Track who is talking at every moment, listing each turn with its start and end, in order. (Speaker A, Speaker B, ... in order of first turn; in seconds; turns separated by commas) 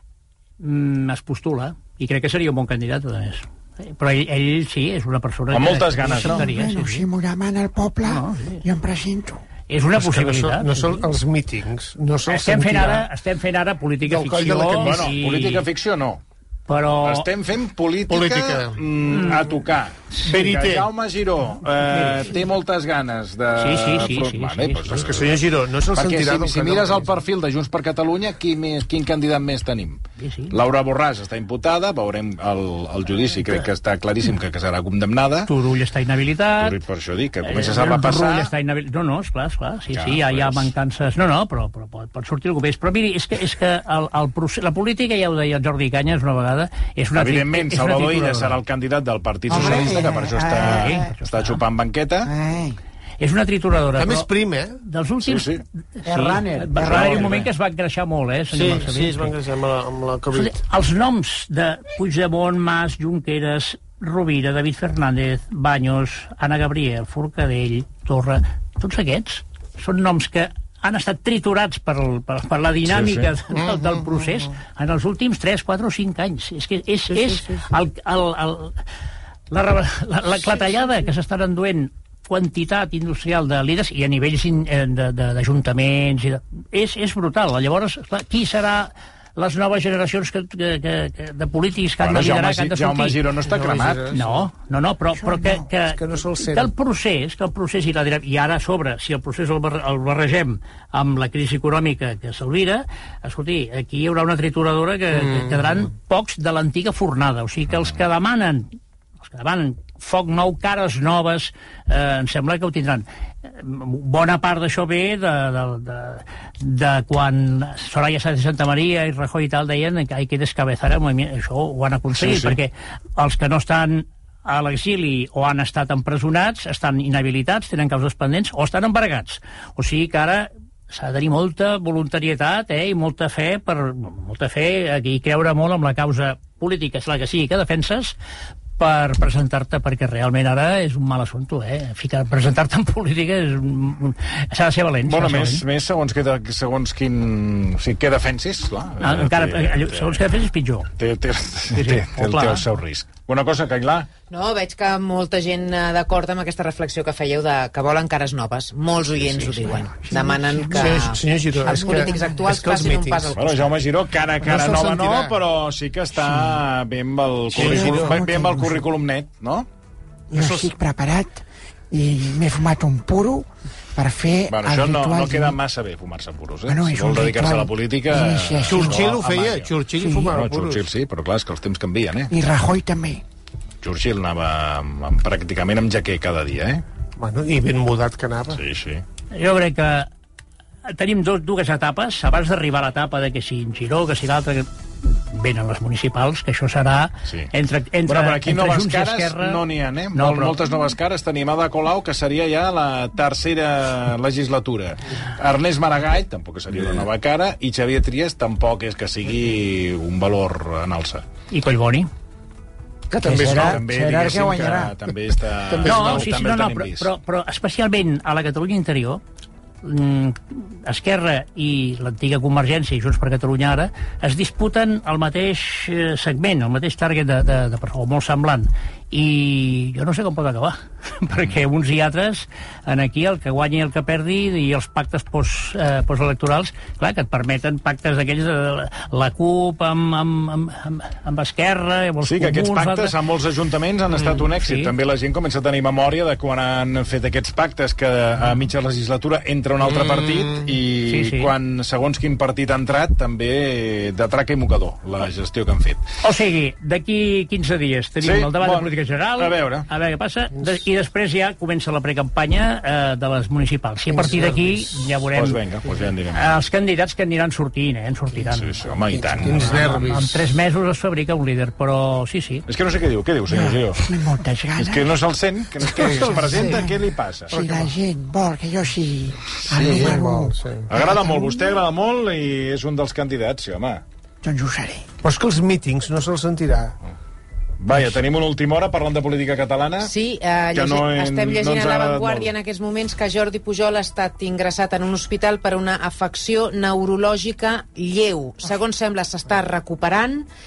Speaker A: 0.6-7.0, Speaker B: 5.5-6.5, Speaker C: 6.1-9.4, Speaker A: 8.0-8.6, Speaker A: 9.7-11.0, Speaker D: 10.0-13.1, Speaker A: 12.3-15.6, Speaker D: 14.1-15.1, Speaker B: 14.8-16.2, Speaker A: 16.7-17.2, Speaker B: 17.0-35.5, Speaker D: 18.1-18.8, Speaker A: 19.1-19.5, Speaker D: 20.2-20.9, Speaker A: 21.9-22.3, Speaker A: 23.6-25.1, Speaker D: 24.9-27.1, Speaker A: 30.2-30.5, Speaker A: 35.5-36.8, Speaker B: 36.6-38.5, Speaker A: 37.4-48.5, Speaker B: 39.9-40.7, Speaker B: 47.1-52.3, Speaker C: 49.5-51.1, Speaker A: 50.7-51.6, Speaker C: 52.2-52.8, Speaker A: 53.2-59.3, Speaker D: 54.0-54.8, Speaker B: 55.2-55.6, Speaker C: 56.0-57.4, Speaker B: 56.8-57.4, Speaker D: 58.5-60.6, Speaker A: 60.3-78.8, Speaker B: 72.9-73.3, Speaker D: 73.5-74.3, Speaker A: 79.5-93.2, Speaker B: 92.0-94.1, Speaker D: 93.5-94.5, Speaker A: 94.1-138.2, Speaker C: 95.2-95.6, Speaker D: 95.8-96.7, Speaker D: 105.1-105.8, Speaker B: 122.1-122.6, Speaker A: 138.8-145.6, Speaker B: 145.1-150.2, Speaker A: 149.0-150.9, Speaker B: 151.0-154.1, Speaker A: 151.7-152.6, Speaker E: 154.3-163.7, Speaker B: 159.2-159.8, Speaker A: 160.0-161.0, Speaker D: 160.7-163.3, Speaker B: 163.3-169.7, Speaker D: 164.4-165.3, Speaker C: 166.2-166.6, Speaker D: 167.5-168.2, Speaker C: 167.6-168.8, Speaker C: 170.3-175.6, Speaker D: 170.3-170.7, Speaker B: 174.5-182.3, Speaker C: 176.7-179.1, Speaker D: 178.7-180.9, Speaker C: 180.0-180.3, Speaker C: 182.3-183.2, Speaker B: 183.8-186.8, Speaker D: 187.2-188.6, Speaker B: 188.5-189.0, Speaker A: 189.3-190.1, Speaker A: 190.8-199.6, Speaker B: 198.1-211.2, Speaker A: 200.1-200.6, Speaker A: 211.5-212.1, Speaker C: 213.1-215.0, Speaker B: 213.2-217.1, Speaker C: 215.7-216.2, Speaker A: 215.8-219.2, Speaker A: 219.8-243.1, Speaker B: 242.2-256.0, Speaker A: 244.2-244.9, Speaker D: 250.0-250.6, Speaker A: 251.1-251.5, Speaker A: 256.2-265.6, Speaker B: 258.2-259.9, Speaker D: 264.1-264.9, Speaker B: 265.3-266.5, Speaker A: 266.3-268.8, Speaker B: 268.4-270.1, Speaker C: 269.1-269.5, Speaker D: 269.4-270.4, Speaker A: 269.8-272.6, Speaker B: 272.7-274.1, Speaker C: 273.5-275.1, Speaker B: 274.8-277.6, Speaker C: 275.8-276.9, Speaker D: 276.3-276.7, Speaker C: 277.5-281.7, Speaker D: 277.5-277.9, Speaker B: 279.6-280.2, Speaker D: 279.8-280.9, Speaker B: 280.9-284.0, Speaker C: 284.4-285.0, Speaker D: 285.2-286.9, Speaker B: 287.8-290.1, Speaker E: 290.0-300.4, Speaker B: 290.7-292.5